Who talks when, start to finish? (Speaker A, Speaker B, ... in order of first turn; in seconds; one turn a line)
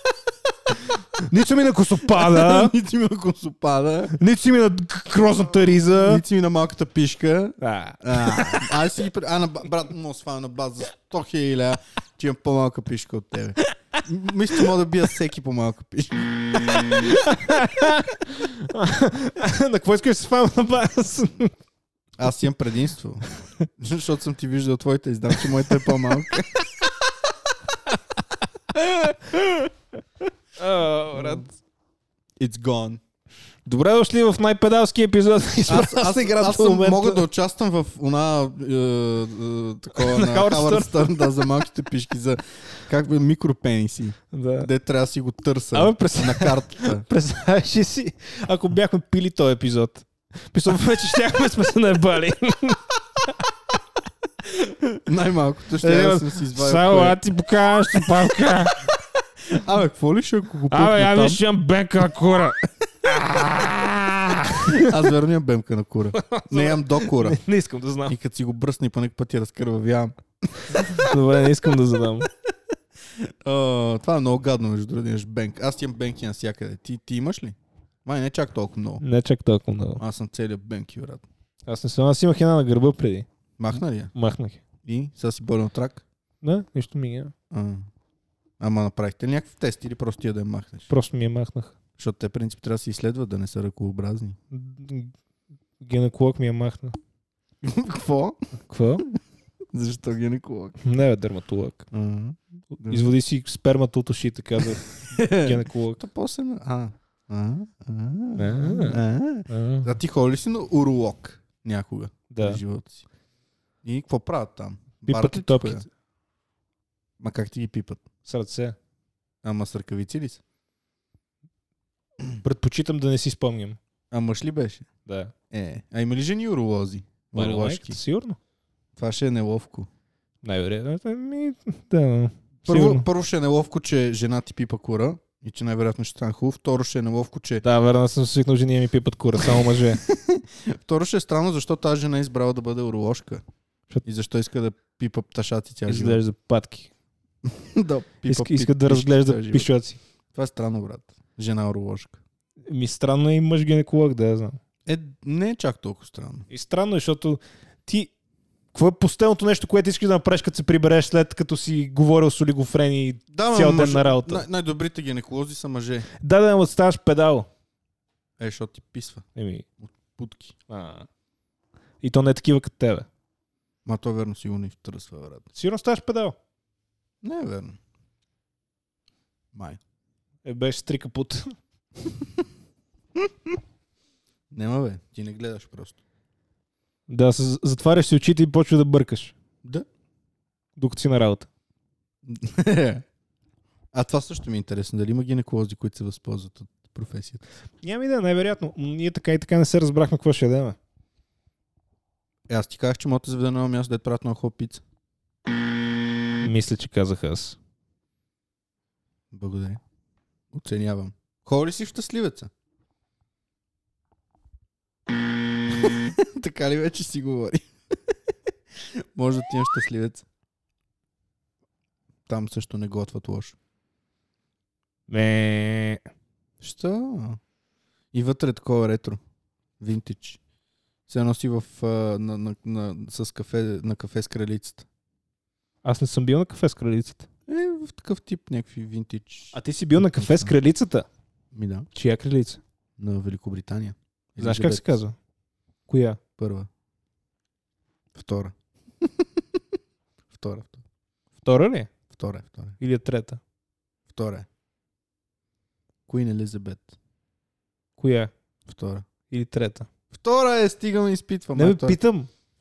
Speaker A: 1.2-2.7
Speaker B: 2.1-4.2
Speaker A: 4.2-6.2
Speaker B: 5.9-16.9
Speaker A: 7.6-8.8
Speaker A: 16.9-21.5
Speaker B: 22.2-26.7
Speaker A: 28.7-29.7
Speaker A: 30.6-31.5
Speaker B: 31.1-31.4
Speaker B: 32.4-33.0
Speaker A: 33.7-37.2
Speaker B: 35.7-47.0
Speaker A: 40.0-41.3
Speaker A: 44.3-44.7
Speaker A: 45.7-53.5
Speaker B: 55.0-57.2
Speaker A: 55.8-58.8
Speaker B: 59.5-61.4
Speaker A: 60.7-65.0
Speaker B: 64.6-67.4
Speaker A: 66.1-68.2
Speaker B: 68.1-71.1
Speaker A: 70.7-72.3
Speaker B: 73.2-79.0
Speaker A: 79.0-80.0
Speaker B: 80.0-81.2
Speaker A: 81.7-83.3
Speaker B: 83.6-84.1
Speaker A: 84.1-84.6
Speaker B: 84.8-86.0
Speaker A: 86.4-87.3
Speaker B: 87.5-87.9
Speaker B: 88.6-90.9
Speaker A: 90.9-91.8
Speaker B: 92.0-94.4
Speaker A: 94.5-95.1
Speaker A: 95.8-97.0
Speaker B: 97.6-98.4
Speaker A: 98.7-99.0
Speaker B: 99.7-100.8
Speaker A: 100.8-101.9
Speaker B: 101.9-103.1
Speaker A: 102.8-106.0
Speaker B: 105.0-113.0
Speaker A: 108.4-109.9
Speaker A: 112.3-112.6
Speaker B: 113.8-115.8
Speaker A: 115.1-115.9
Speaker B: 117.2-118.0
Speaker A: 118.2-118.8
Speaker B: 119.4-120.4
Speaker A: 122.4-123.8
Speaker B: 124.1-124.9
Speaker A: 125.1-125.3
Speaker B: 125.5-128.0
Speaker A: 127.4-128.4
Speaker B: 129.0-129.9
Speaker A: 130.4-133.1
Speaker B: 132.7-137.6
Speaker A: 137.6-140.0
Speaker B: 139.7-143.4
Speaker B: 144.1-146.2
Speaker A: 145.9-146.9
Speaker B: 147.5-149.7
Speaker A: 148.3-150.0
Speaker B: 150.3-152.2
Speaker A: 152.7-154.6
Speaker B: 154.9-156.5
Speaker A: 156.5-158.1
Speaker A: 158.7-164.5
Speaker B: 163.3-166.1
Speaker A: 166.2-167.5
Speaker B: 168.4-169.3
Speaker A: 169.4-169.7
Speaker B: 169.8-170.6
Speaker A: 170.7-171.1
Speaker A: 172.0-173.1
Speaker B: 173.8-175.5
Speaker A: 175.6-176.4
Speaker B: 177.2-177.8
Speaker B: 179.5-179.8
Speaker A: 180.4-181.5
Speaker B: 184.5-186.0
Speaker A: 187.1-189.3
Speaker A: 190.8-191.5
Speaker B: 192.3-193.1
Speaker B: 193.9-197.4
Speaker A: 197.8-200.8
Speaker B: 202.5-204.8
Speaker A: 206.4-207.6
Speaker B: 209.3-209.8
Speaker B: 210.5-212.5
Speaker B: 215.7-217.7
Speaker B: 219.2-220.3
Speaker B: 222.3-223.6
Speaker A: 225.1-226.0
Speaker B: 226.6-227.4
Speaker B: 228.1-229.2
Speaker B: 229.8-230.4
Speaker B: 231.1-234.9
Speaker A: 235.8-237.3
Speaker B: 237.5-240.5
Speaker A: 239.5-241.1
Speaker B: 241.5-241.9
Speaker A: 241.9-242.6
Speaker B: 243.0-244.9
Speaker A: 244.4-245.2
Speaker A: 245.9-246.2
Speaker B: 246.4-246.7
Speaker B: 248.2-248.5
Speaker B: 250.3-250.8
Speaker A: 251.4-251.9
Speaker B: 252.1-252.8
Speaker A: 252.8-253.4
Speaker B: 254.1-254.5
Speaker B: 256.1-256.9
Speaker A: 258.0-258.3
Speaker B: 258.7-259.1
Speaker A: 259.3-259.9
Speaker B: 260.1-262.0
Speaker A: 261.6-262.3